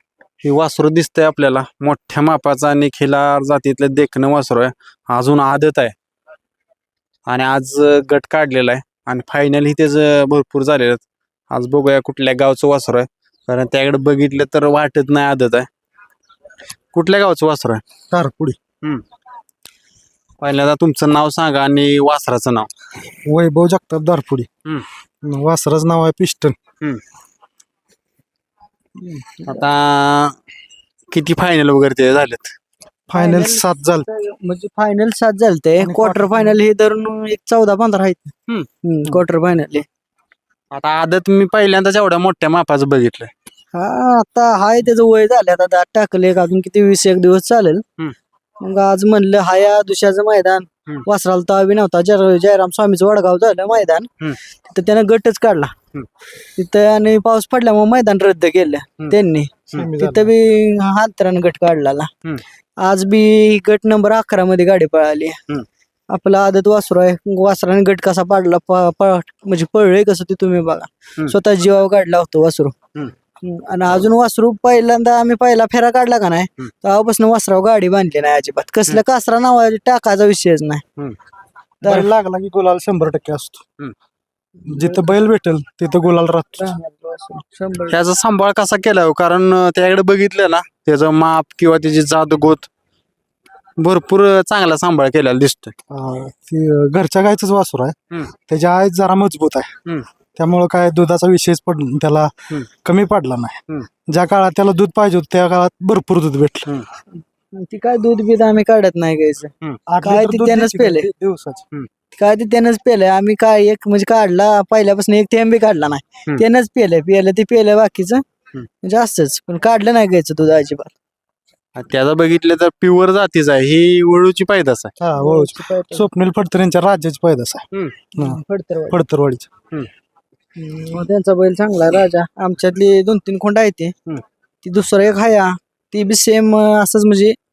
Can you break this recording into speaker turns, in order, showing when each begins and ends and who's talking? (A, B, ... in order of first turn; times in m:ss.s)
0:00.4-0:05.9 A
0:07.3-0:15.7 A
0:16.9-0:17.8 A
0:18.1-0:18.6 B
0:20.4-0:22.7 A
0:23.2-0:24.5 B
0:25.2-0:26.6 B
0:29.0-0:29.7 C
0:29.5-0:30.4 A
0:31.1-0:32.5 A
0:33.1-0:34.1 B
0:33.1-0:38.3 C
0:35.8-0:36.6 B
0:38.8-0:39.8 C
0:40.7-0:43.3 A
0:43.7-0:47.8 C
0:48.6-0:54.1 C
0:54.7-0:55.7 C
0:56.6-1:02.1 C
0:59.7-1:00.3 B
1:02.8-1:05.4 C
1:06.1-1:12.7 C
1:13.4-1:20.8 C
1:21.8-1:22.1 C
1:21.8-1:23.6 B
1:24.6-1:25.1 C
1:24.7-1:26.7 B
1:26.6-1:28.0 C
1:27.9-1:32.7 A
1:33.8-1:35.8 A
1:35.9-1:39.8 B
1:40.4-1:42.3 B
1:42.8-1:46.7 B
1:47.6-1:49.5 C
1:49.9-1:51.6 B
1:50.0-1:51.1 C
1:52.1-1:58.2 C
1:58.8-2:00.9 C
2:01.8-2:04.9 A
2:05.0-2:08.4 B
2:05.2-2:06.1 C
2:08.2-2:09.0 C
2:08.9-2:09.5 B
2:10.6-2:13.9 C
2:14.6-2:17.4 C